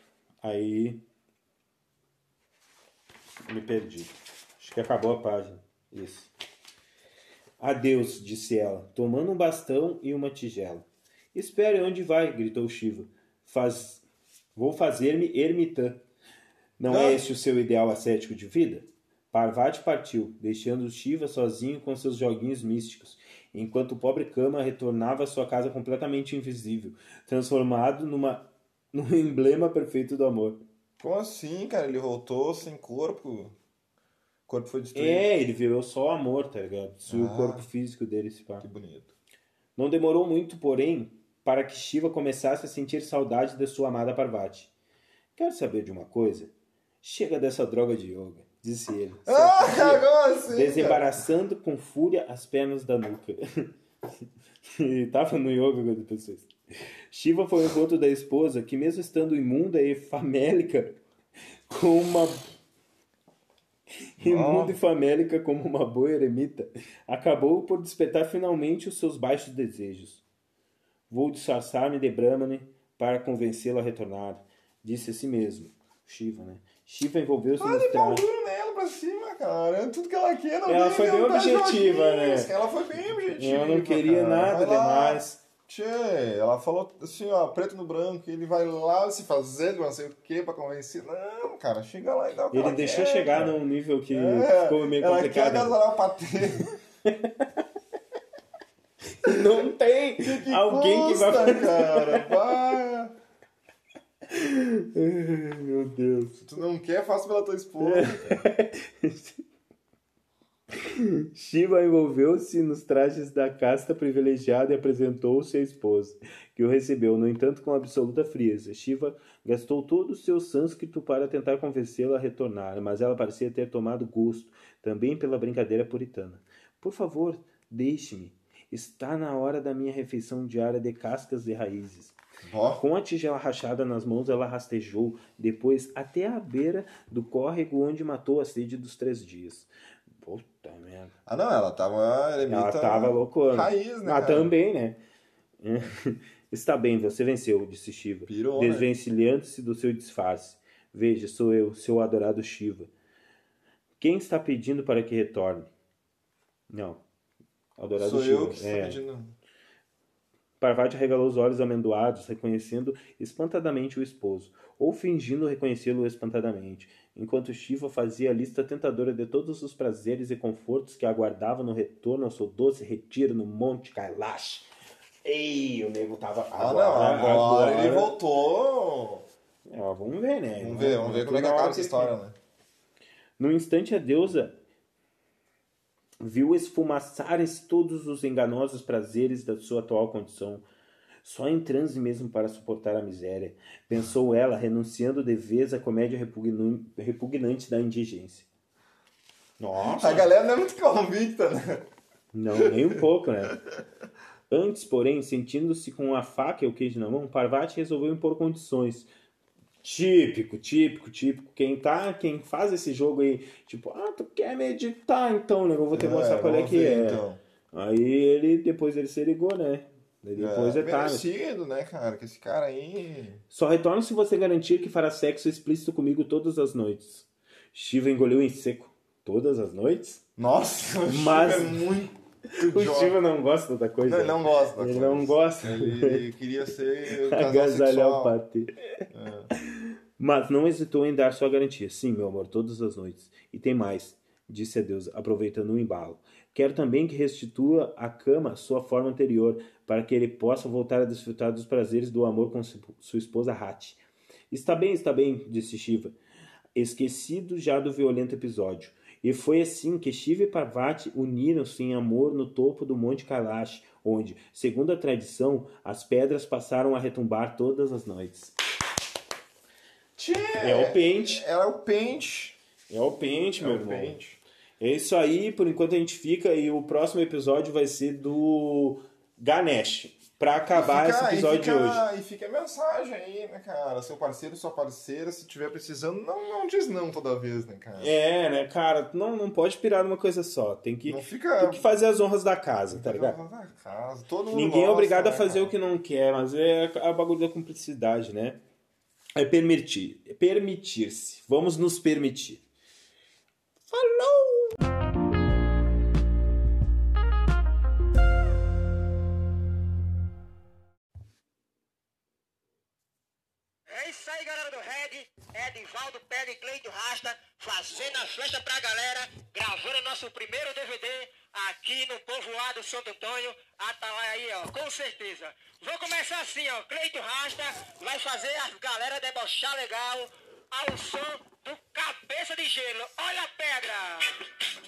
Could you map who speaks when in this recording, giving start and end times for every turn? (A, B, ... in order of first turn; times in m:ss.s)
0:00.4-0:01.0 A
0:03.4-0:06.3 A
0:07.6-0:14.0 A
0:14.6-0:16.0 A
0:16.8-0:30.6 A
0:16.9-0:17.2 B
0:31.0-0:33.5 B
0:34.5-0:35.3 B
0:34.9-0:38.6 A
0:37.1-0:37.6 B
0:38.6-0:39.1 B
0:39.8-0:44.7 A
0:45.4-0:46.5 A
0:47.0-0:53.7 A
0:49.3-0:51.1 B
0:54.8-0:56.5 A
0:57.1-1:01.0 A
1:01.7-1:02.4 A
1:04.2-1:10.2 A
1:04.2-1:04.8 B
1:11.1-1:18.2 A
1:17.6-1:33.6 B
1:20.7-1:22.5 A
1:23.4-1:25.4 A
1:32.5-1:35.8 A
1:34.1-1:36.8 B
1:37.0-1:37.5 A
1:39.2-1:42.4 A
1:40.2-1:43.1 B
1:44.3-1:46.4 A
1:46.4-1:48.4 B
1:47.8-1:49.4 A
1:50.8-2:12.2 A
2:12.4-2:12.8 B
2:12.8-2:21.1 A
2:21.2-2:24.5 B
2:22.5-2:25.0 A
2:25.6-2:32.9 A
2:28.3-2:28.9 B
2:34.0-2:35.7 A
2:36.7-2:37.0 A
2:37.8-2:39.0 A
2:38.0-2:39.3 B
2:40.6-2:54.7 A
2:55.2-2:58.1 A
2:56.6-2:59.2 B
2:59.6-3:02.1 A
3:00.6-3:02.3 B
3:03.4-3:04.6 A
3:06.2-3:10.6 A
3:11.2-3:18.5 A
3:19.6-3:20.3 A
3:19.8-3:21.8 B
3:22.3-3:23.6 A
3:22.6-3:22.9 B
3:24.5-3:29.1 A
3:29.8-3:41.2 A
3:35.9-3:37.4 B
3:40.4-3:43.4 B
3:43.5-3:50.2 A
3:50.4-3:53.2 B
3:51.1-3:51.8 A
3:52.6-3:56.2 A
3:54.0-3:58.4 B
3:57.3-3:58.8 A
3:59.1-3:59.5 B
3:59.7-4:16.1 A
4:16.7-4:28.5 A
4:30.2-4:32.6 B
4:30.6-4:31.4 A
4:32.9-4:34.2 A
4:33.6-4:34.4 B
4:34.8-4:42.0 A
4:40.7-4:48.1 B
4:48.0-4:53.4 A
4:51.0-4:51.9 B
4:52.9-4:55.7 B
4:54.5-4:58.6 A
4:59.4-5:02.6 A
5:03.9-5:04.7 A
5:13.9-5:34.3 C